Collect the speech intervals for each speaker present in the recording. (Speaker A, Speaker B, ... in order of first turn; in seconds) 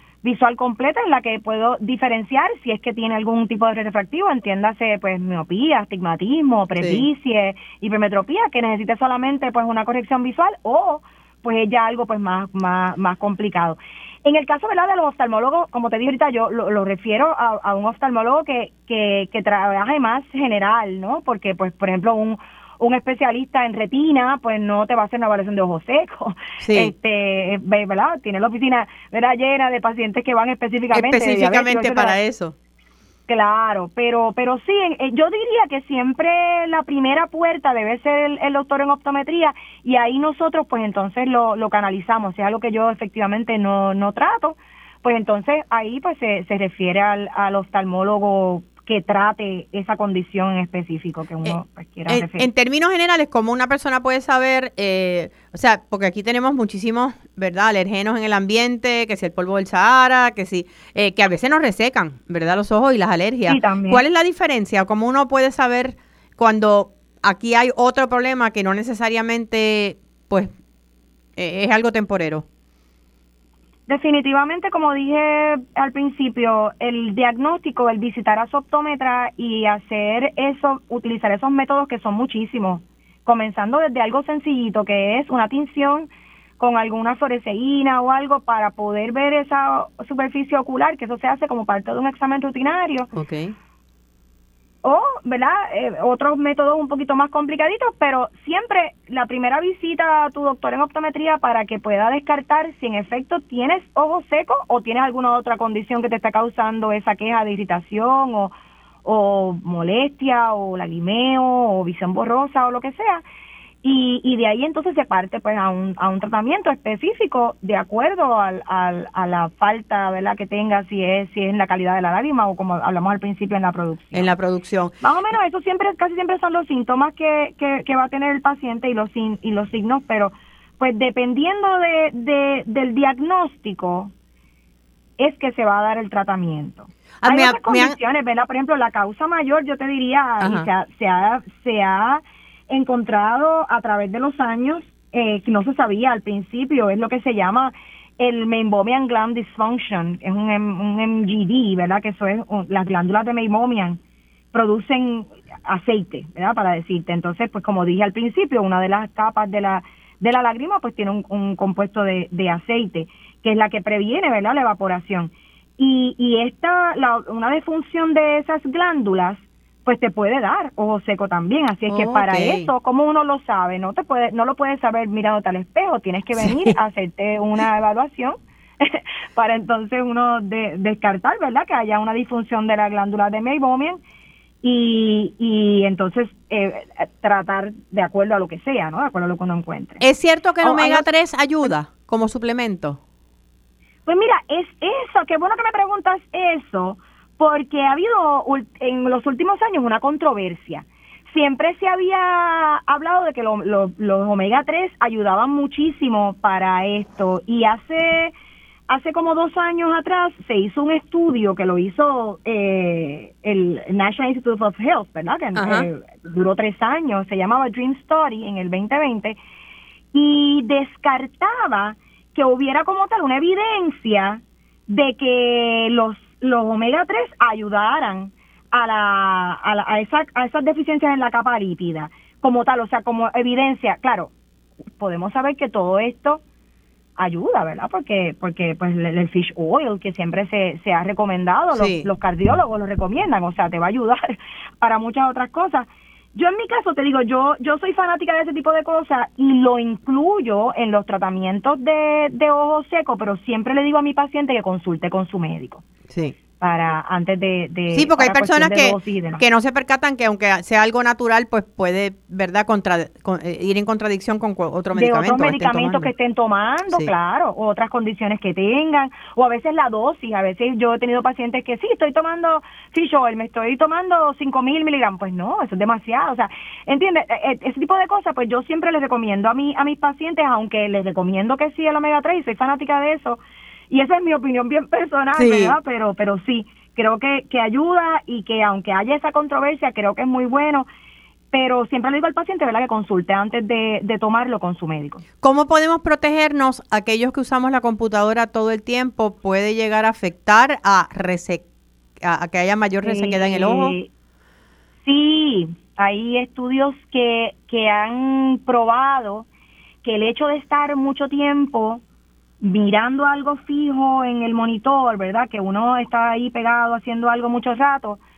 Speaker A: 0.2-32.1, 33.3-52.5, 63.5-64.0, 73.9-93.1, 94.8-108.5, 109.0-113.2, 113.8-124.3, 125.0-134.1, 135.2-154.0, 154.5-184.0, 184.6-190.0, 190.6-191.0, 194.1-208.3, 208.9-219.4, 220.1-234.3, 235.0-236.4, 237.2-255.8, 256.6-259.4, 264.9-290.9, 291.5-295.2, 303.0-304.1, 305.0-309.4, 310.0-312.0, 312.6-318.2
Speaker B: 6.8-7.0, 26.6-26.9, 30.9-32.5, 51.5-70.5, 71.4-72.4, 93.1-93.5, 124.1-124.9, 137.2-137.9, 140.4-140.7, 171.9-172.7, 176.4-176.7, 190.0-193.0, 215.6-215.9, 241.7-242.1, 256.1-256.3, 257.9-266.1, 285.4-285.8, 295.4-301.6, 302.2-303.9